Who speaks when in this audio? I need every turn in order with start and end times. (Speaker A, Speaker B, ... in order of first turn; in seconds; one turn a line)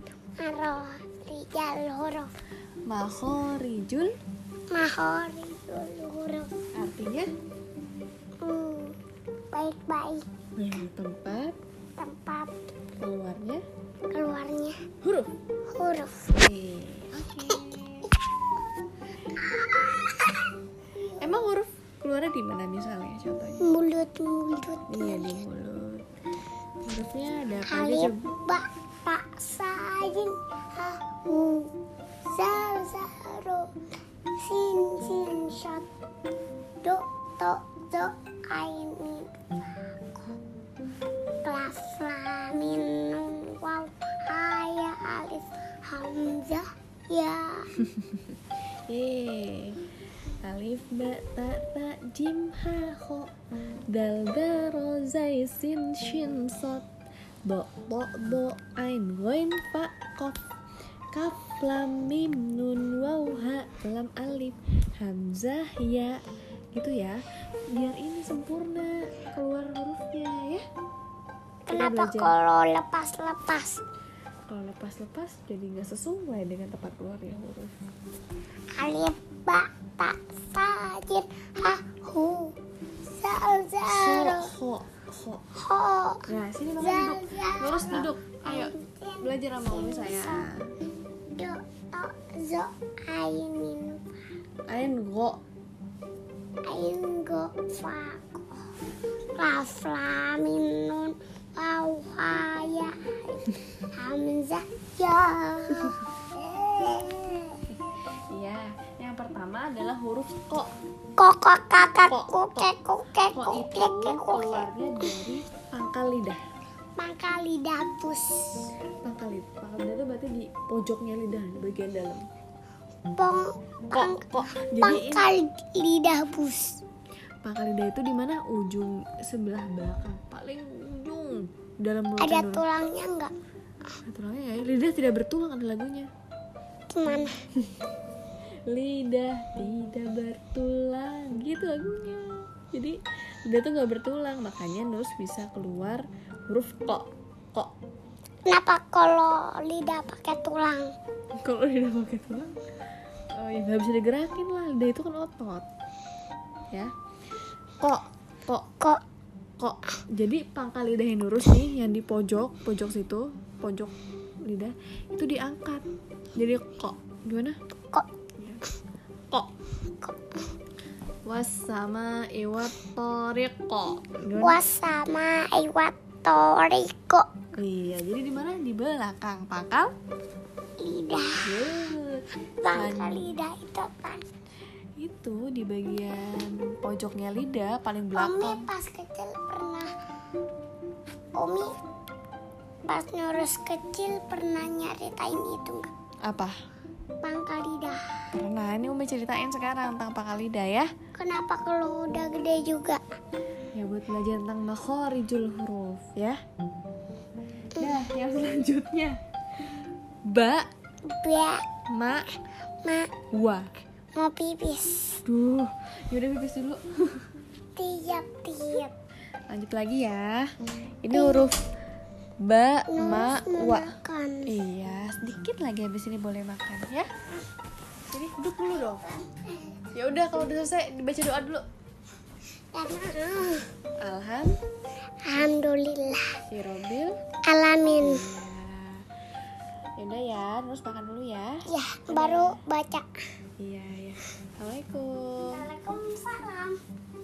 Speaker A: 0.4-2.3
Speaker B: 2.9-4.2
Speaker A: 4.7-6.5
Speaker B: 6.7-7.3
Speaker A: 8.4-9.0
Speaker A: 9.5-10.3
Speaker B: 10.6-11.6
Speaker A: 12.0-12.5
Speaker B: 13.0-13.6
Speaker A: 14.1-14.8
Speaker B: 15.0-15.3
Speaker A: 15.7-16.3
Speaker B: 16.3-18.1
Speaker A: 19.3-21.3
Speaker B: 21.2-23.7
Speaker A: 23.6-25.4
Speaker B: 24.9-26.1
Speaker B: 26.9-28.3
Speaker A: 27.6-33.7
Speaker A: 34.4-35.9
Speaker A: 36.8-40.3
Speaker A: 41.4-47.7
Speaker B: 48.9-49.8
Speaker B: 50.4-53.3
Speaker B: 53.9-56.9
Speaker B: 57.5-60.4
Speaker B: 61.1-70.6
Speaker A: 71.7-73.8
Speaker B: 71.7-72.3
Speaker B: 74.5-77.7
Speaker A: 78.8-82.5
Speaker A: 83.0-84.5
Speaker B: 83.8-85.5
Speaker A: 85.6-90.5
Speaker B: 86.3-90.7
Speaker A: 91.3-94.2
Speaker B: 94.7-95.4
Speaker A: 96.7-98.7
Speaker A: 99.4-107.6
Speaker B: 108.3-110.7
Speaker A: 111.2-114.7
Speaker B: 112.1-112.7
Speaker B: 113.3-116.4
Speaker A: 117.0-118.6
Speaker B: 119.0-122.3
Speaker A: 123.2-126.8
Speaker B: 123.9-125.3
Speaker B: 127.4-132.6
Speaker A: 132.2-133.3
Speaker B: 134.0-136.1
Speaker A: 136.9-137.4
Speaker B: 138.7-147.7
Speaker A: 148.5-150.9
Speaker B: 151.4-152.5
Speaker B: 153.3-155.7
Speaker B: 157.8-158.7
Speaker B: 159.6-163.9
Speaker B: 164.5-167.6
Speaker A: 170.0-170.3
Speaker B: 171.3-174.6
Speaker A: 174.4-177.3
Speaker B: 177.6-179.9
Speaker A: 180.8-181.5
Speaker B: 181.4-183.3
Speaker A: 182.6-184.2
Speaker B: 185.0-188.7
Speaker A: 188.2-189.9
Speaker A: 191.3-191.7
Speaker A: 192.9-195.9
Speaker B: 196.2-196.5
Speaker A: 197.2-198.0
Speaker B: 198.4-200.9
Speaker A: 201.2-203.0
Speaker B: 203.7-206.4
Speaker B: 207.8-209.2
Speaker B: 210.3-210.7
Speaker A: 211.1-211.6
Speaker B: 211.9-212.3
Speaker A: 212.8-213.1
Speaker B: 213.3-213.7
Speaker A: 214.2-215.2
Speaker B: 215.2-217.2
Speaker A: 217.8-218.9
Speaker B: 219.5-221.6
Speaker A: 221.1-221.5
Speaker B: 222.4-223.9
Speaker A: 222.9-224.6
Speaker B: 224.5-227.1
Speaker B: 228.1-229.2
Speaker B: 229.9-231.6
Speaker A: 232.7-233.7
Speaker B: 234.0-234.6
Speaker A: 235.2-236.4
Speaker B: 236.5-237.2
Speaker A: 237.5-238.3
Speaker B: 238.0-239.0
Speaker B: 240.0-242.6
Speaker A: 241.7-243.1
Speaker B: 243.6-245.7
Speaker A: 245.5-246.8